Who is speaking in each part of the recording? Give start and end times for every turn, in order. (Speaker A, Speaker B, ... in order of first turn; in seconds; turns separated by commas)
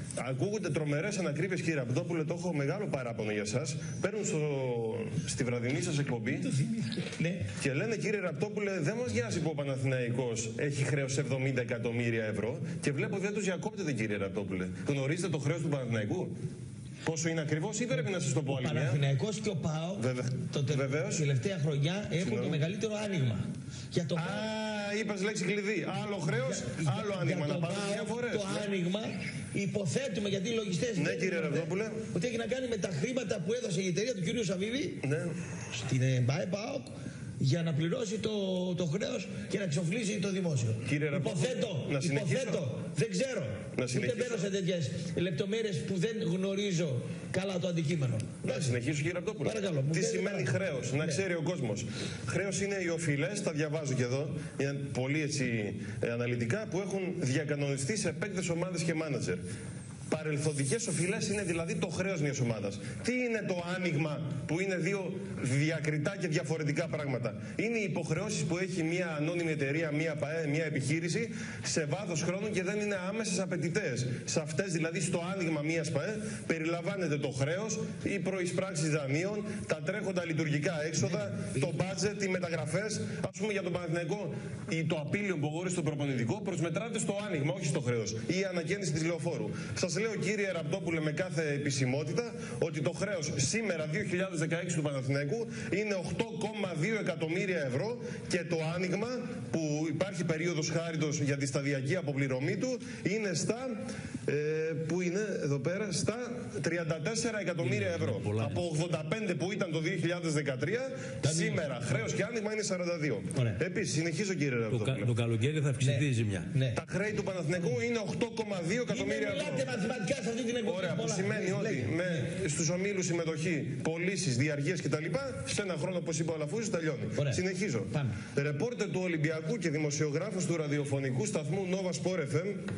Speaker A: 0.2-6.5, Speaker B: 6.5-7.5, Speaker A: 7.6-16.3, Speaker A: 17.1-19.0, Speaker B: 18.4-24.5, Speaker A: 20.0-21.2, Speaker A: 22.2-22.6, Speaker A: 24.2-28.7, Speaker B: 26.3-35.0, Speaker A: 31.0-32.0, Speaker A: 35.0-35.3, Speaker B: 35.7-48.7, Speaker A: 40.9-42.6, Speaker A: 43.7-44.5, Speaker A: 48.5-59.4, Speaker B: 49.4-51.2, Speaker A: 60.1-115.1, Speaker C: 107.6-108.6, Speaker B: 111.2-111.7, Speaker C: 114.7-116.5, Speaker B: 115.8-116.8, Speaker A: 116.7-119.7, Speaker B: 118.9-122.2, Speaker A: 120.6-132.6, Speaker B: 127.2-128.2